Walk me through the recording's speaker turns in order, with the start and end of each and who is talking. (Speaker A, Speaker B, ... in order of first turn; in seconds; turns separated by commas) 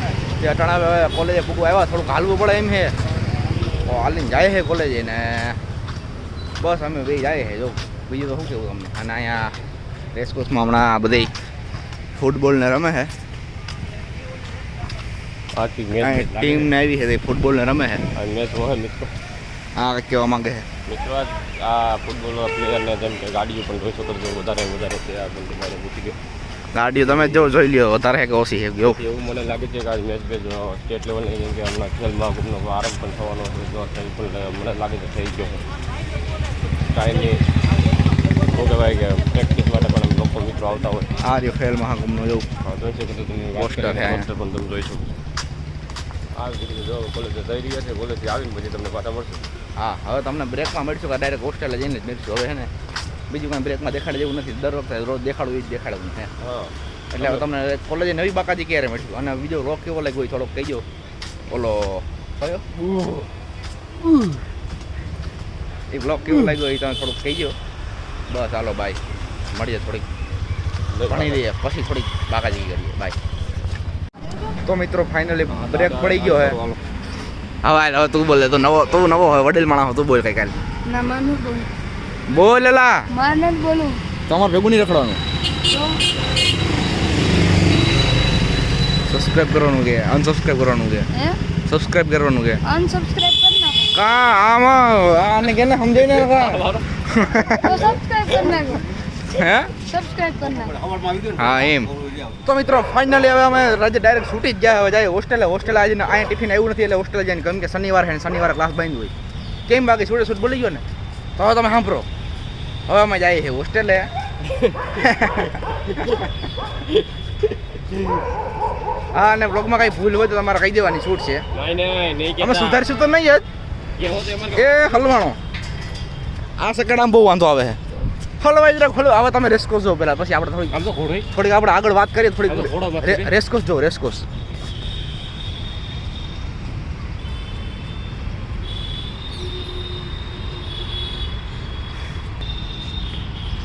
Speaker A: 0.4-2.9, Speaker A: 3.8-5.6, Speaker A: 6.6-9.5, Speaker A: 10.1-11.3, Speaker A: 12.2-13.1, Speaker B: 15.6-16.7, Speaker A: 16.0-18.0, Speaker B: 18.1-19.1, Speaker A: 19.8-20.6, Speaker B: 20.9-26.2, Speaker A: 26.7-29.0, Speaker B: 27.0-27.5, Speaker B: 28.9-35.6, Speaker B: 36.9-37.4, Speaker B: 38.5-41.1, Speaker A: 41.2-42.5, Speaker B: 42.6-45.1, Speaker A: 43.5-44.3, Speaker B: 46.4-49.5, Speaker A: 49.8-52.7, Speaker A: 53.3-56.3, Speaker B: 56.4-57.4, Speaker A: 57.1-60.8, Speaker A: 61.5-63.2, Speaker A: 65.9-67.5, Speaker A: 68.3-69.0, Speaker A: 69.5-70.0, Speaker B: 70.9-71.4, Speaker A: 71.1-73.2, Speaker A: 74.6-76.6, Speaker B: 75.5-76.8, Speaker A: 77.6-80.5, Speaker C: 80.9-81.7, Speaker A: 82.3-83.0, Speaker C: 83.1-84.0, Speaker A: 84.3-85.2, Speaker C: 85.7-86.0, Speaker A: 89.1-91.0, Speaker A: 91.7-92.6, Speaker C: 92.6-93.9, Speaker A: 93.9-97.9, Speaker B: 96.1-96.8, Speaker C: 97.6-98.8, Speaker A: 99.3-99.7, Speaker C: 99.8-100.7, Speaker B: 100.8-101.5, Speaker A: 101.3-101.9, Speaker A: 102.4-109.1, Speaker A: 109.7-110.8, Speaker A: 111.3-112.0, Speaker A: 112.9-114.1, Speaker B: 114.5-114.9, Speaker A: 114.9-116.2, Speaker B: 116.9-118.2, Speaker A: 119.1-121.4, Speaker B: 121.5-122.8, Speaker A: 122.4-123.4, Speaker B: 124.0-124.7, Speaker A: 124.5-125.4, Speaker A: 126.6-127.8, Speaker A: 128.4-130.8, Speaker B: 130.7-131.2, Speaker A: 131.3-134.2, Speaker B: 132.5-133.3